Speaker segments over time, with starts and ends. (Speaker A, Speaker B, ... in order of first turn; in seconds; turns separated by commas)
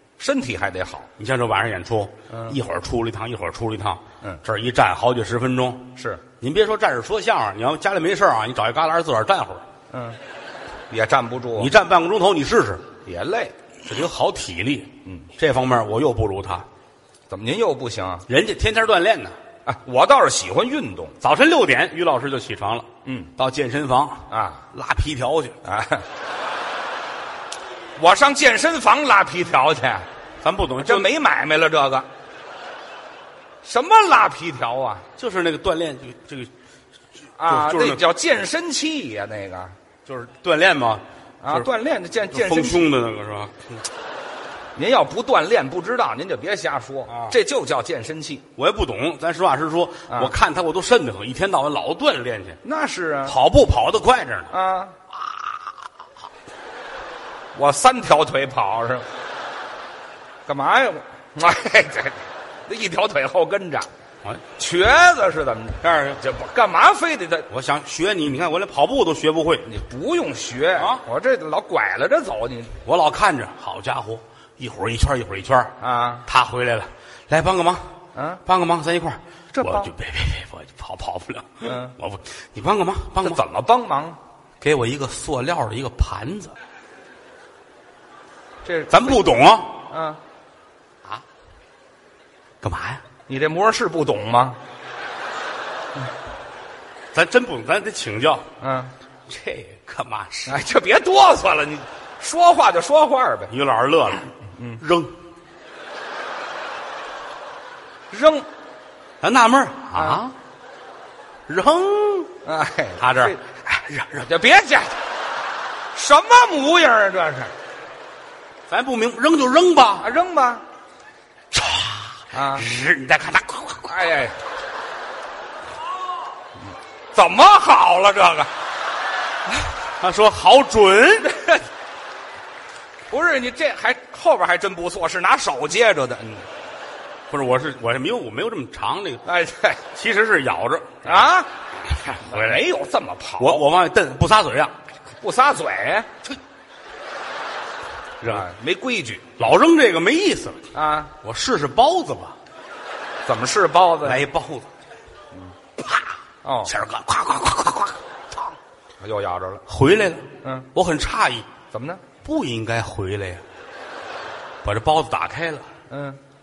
Speaker A: 0.2-1.1, Speaker B: 1.2-9.6, Speaker A: 2.3-2.6, Speaker A: 6.0-6.2, Speaker A: 9.9-10.2, Speaker A: 10.9-11.7, Speaker B: 11.6-12.9, Speaker A: 13.0-13.5, Speaker B: 13.9-16.6, Speaker A: 17.3-18.2, Speaker B: 18.3-19.3, Speaker A: 19.6-21.1, Speaker B: 21.2-25.6, Speaker A: 23.0-23.3, Speaker A: 24.3-24.6, Speaker A: 25.6-26.0, Speaker A: 27.9-30.1, Speaker B: 30.4-31.1, Speaker A: 30.8-32.1, Speaker A: 33.6-35.0, Speaker B: 35.2-36.5, Speaker A: 37.4-39.7, Speaker B: 37.5-38.0, Speaker B: 40.0-41.7, Speaker A: 41.4-42.9, Speaker B: 42.3-43.7, Speaker A: 44.8-48.4, Speaker B: 47.1-47.3, Speaker B: 48.5-52.6, Speaker A: 50.1-50.3, Speaker A: 52.6-53.4, Speaker B: 53.2-54.5, Speaker A: 54.5-55.0, Speaker A: 57.5-59.0, Speaker A: 60.5-63.9, Speaker A: 64.5-67.5, Speaker B: 65.8-66.2, Speaker B: 67.5-69.7, Speaker A: 69.7-72.7, Speaker B: 70.8-71.0, Speaker B: 72.8-77.9, Speaker A: 75.8-76.2, Speaker A: 78.1-78.4, Speaker B: 78.5-83.4, Speaker A: 79.5-79.9, Speaker A: 81.6-81.9, Speaker A: 83.2-84.2, Speaker B: 84.6-86.5, Speaker A: 88.6-89.2, Speaker B: 88.9-89.8, Speaker A: 89.9-90.2, Speaker B: 92.6-93.0, Speaker A: 93.3-94.6, Speaker B: 97.1-98.5, Speaker A: 98.6-98.9, Speaker B: 99.3-100.6, Speaker A: 100.5-103.5, Speaker B: 103.5-105.2, Speaker A: 108.1-108.5, Speaker B: 109.2-110.3, Speaker A: 109.9-110.2, Speaker B: 111.5-112.3, Speaker A: 112.4-113.4, Speaker B: 113.0-114.3, Speaker A: 114.2-115.0, Speaker A: 115.9-117.5, Speaker B: 118.7-120.1, Speaker A: 120.0-120.6, Speaker B: 121.5-123.9, Speaker A: 122.3-122.7, Speaker A: 123.9-124.3, Speaker A: 127.1-128.5, Speaker B: 130.0-131.3, Speaker A: 131.3-131.6, Speaker A: 133.1-136.4, Speaker B: 137.3-139.2, Speaker A: 139.2-139.8, Speaker B: 139.9-141.3, Speaker A: 141.0-141.5, Speaker B: 141.9-142.6, Speaker A: 142.2-143.6, Speaker B: 143.4-144.7, Speaker A: 145.2-146.1, Speaker B: 148.2-148.5, Speaker A: 148.2-149.2, Speaker B: 149.4-150.6, Speaker A: 150.7-151.1, Speaker B: 151.1-152.3, Speaker A: 153.2-154.2, Speaker B: 154.0-154.7, Speaker B: 155.8-156.0, Speaker A: 156.4-156.7, Speaker B: 156.7-158.5, Speaker A: 159.0-159.6, Speaker B: 159.7-161.5, Speaker A: 160.4-160.7, Speaker A: 161.7-162.0, Speaker B: 162.2-163.4, Speaker B: 164.6-165.7, Speaker A: 165.9-166.2